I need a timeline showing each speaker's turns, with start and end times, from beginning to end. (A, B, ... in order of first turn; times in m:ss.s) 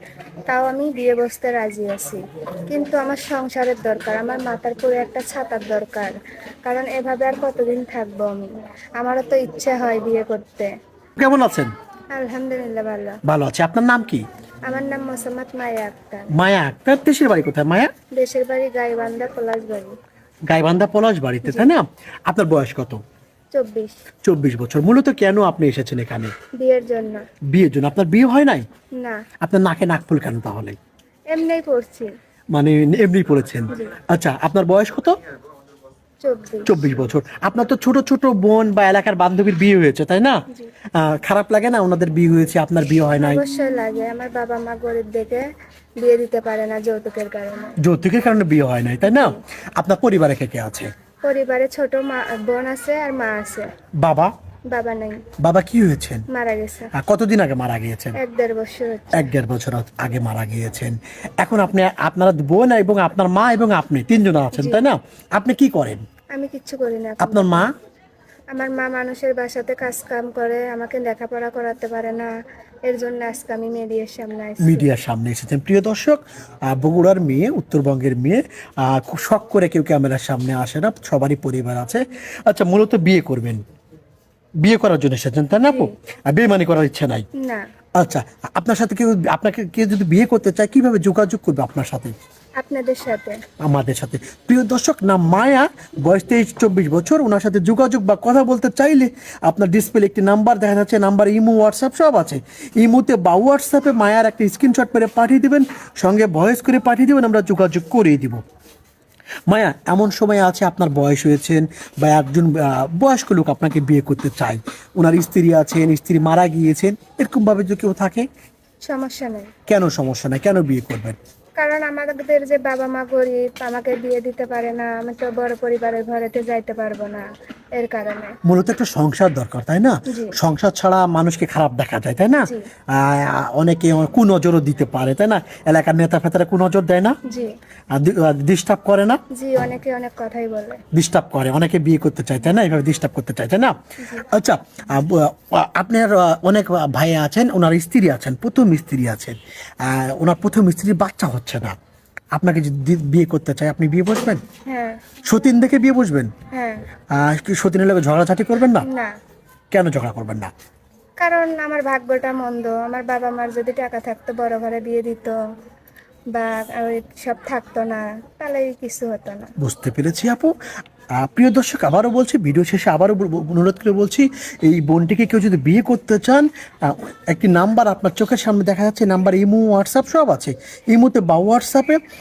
0:00.5-0:08.5 A
0:09.0-0:10.7 A
0:11.2-0:11.7 B
0:12.1-0:13.2 A
0:13.2-0:14.2 B
0:14.6-0:16.3 A
0:16.3-0:17.9 B
0:18.1-0:19.9 A
0:20.5-0:23.0 B
0:21.4-0:21.7 A
0:23.5-0:23.9 A
0:24.2-0:26.3 B
0:26.6-0:27.2 A
0:27.5-0:28.6 B
0:29.4-0:30.8 B
0:31.3-0:32.1 A
0:32.5-0:35.2 B
0:36.2-0:36.8 A
0:36.6-0:40.4 B
0:41.0-0:43.4 B
0:43.2-0:45.4 A
0:46.0-0:47.8 A
0:47.8-0:50.9 B
0:49.1-0:49.4 A
0:51.2-0:53.7 A
0:54.0-0:54.3 B
0:54.7-0:55.2 A
0:55.4-0:56.2 B
0:56.3-0:56.9 A
0:56.9-0:58.2 B
0:58.2-0:59.2 A
0:59.1-1:06.0 B
1:04.5-1:04.8 A
1:06.3-1:07.7 A
1:07.2-1:07.7 B
1:08.5-1:12.3 A
1:12.8-1:14.9 A
1:14.6-1:23.6 B
1:24.6-1:27.2 B
1:25.7-1:25.9 A
1:27.4-1:27.6 A
1:28.0-1:32.1 B
1:32.6-1:33.4 A
1:33.6-1:48.4 B
1:49.5-1:58.3 B
1:58.8-1:59.5 A
1:59.7-2:01.2 B
2:01.6-2:08.3 A
2:08.4-2:17.2 B
2:10.1-2:10.3 A
2:17.3-2:17.5 A
2:17.9-2:19.2 B
2:19.3-2:20.8 A
2:20.9-2:31.8 B
2:32.3-2:34.4 B
2:34.6-2:35.2 A
2:35.2-2:36.3 B
2:36.5-2:36.8 A
2:37.1-2:38.8 B
2:38.8-2:39.1 A
2:39.7-2:40.5 B
2:41.2-2:45.4 A
2:46.3-2:49.5 A
2:49.6-2:50.5 B
2:51.2-3:02.0 B